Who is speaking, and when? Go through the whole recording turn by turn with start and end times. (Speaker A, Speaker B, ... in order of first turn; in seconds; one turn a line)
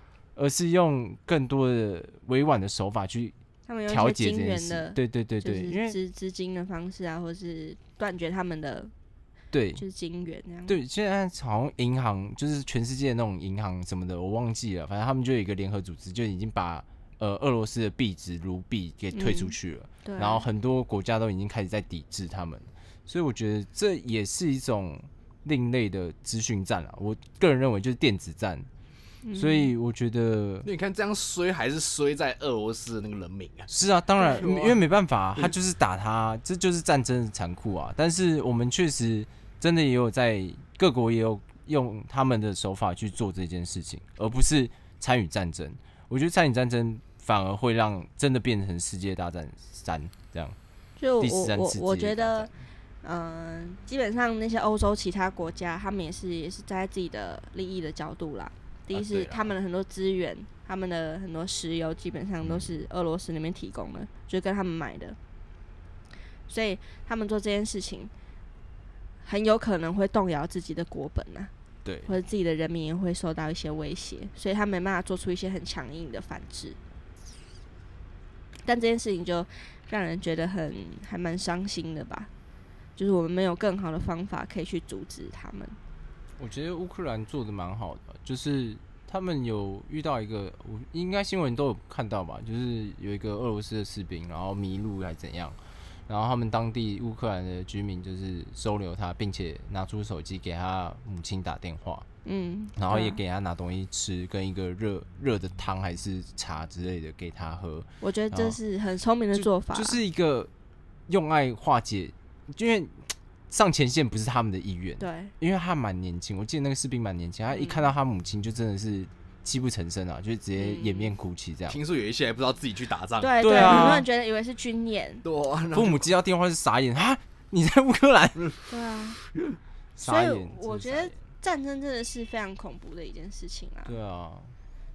Speaker A: 0.3-3.3
Speaker B: 3.7-8.9
Speaker A: 3.9-6.0
Speaker A: 9.5-9.8
Speaker B: 9.8-10.8
Speaker A: 10.7-28.7
Speaker B: 19.1-20.4
Speaker B: 29.2-29.7
Speaker A: 29.4-30.7
Speaker C: 30.6-33.7
Speaker A: 33.7-50.6
Speaker C: 34.3-34.8
Speaker B: 51.0-52.5
Speaker A: 51.2-52.5
Speaker B: 53.0-65.2
Speaker A: 58.9-59.3
Speaker B: 66.5-68.1
Speaker B: 69.2-71.5
Speaker A: 71.8-72.1
Speaker B: 72.0-76.8
Speaker B: 78.6-82.3
Speaker B: 83.0-85.8
Speaker A: 86.4-102.0
Speaker B: 102.2-103.2
Speaker A: 102.8-108.6
Speaker B: 108.0-110.0
Speaker A: 109.3-110.5
Speaker A: 111.1-121.8
Speaker B: 115.0-115.3
Speaker B: 117.5-117.8
Speaker B: 120.5-121.1
Speaker C: 121.7-124.0
Speaker B: 123.2-125.2
Speaker A: 123.4-124.0
Speaker C: 125.2-126.0
Speaker A: 125.7-128.4
Speaker B: 128.7-129.2
Speaker A: 130.0-131.2
Speaker B: 130.0-133.9
Speaker A: 133.8-134.5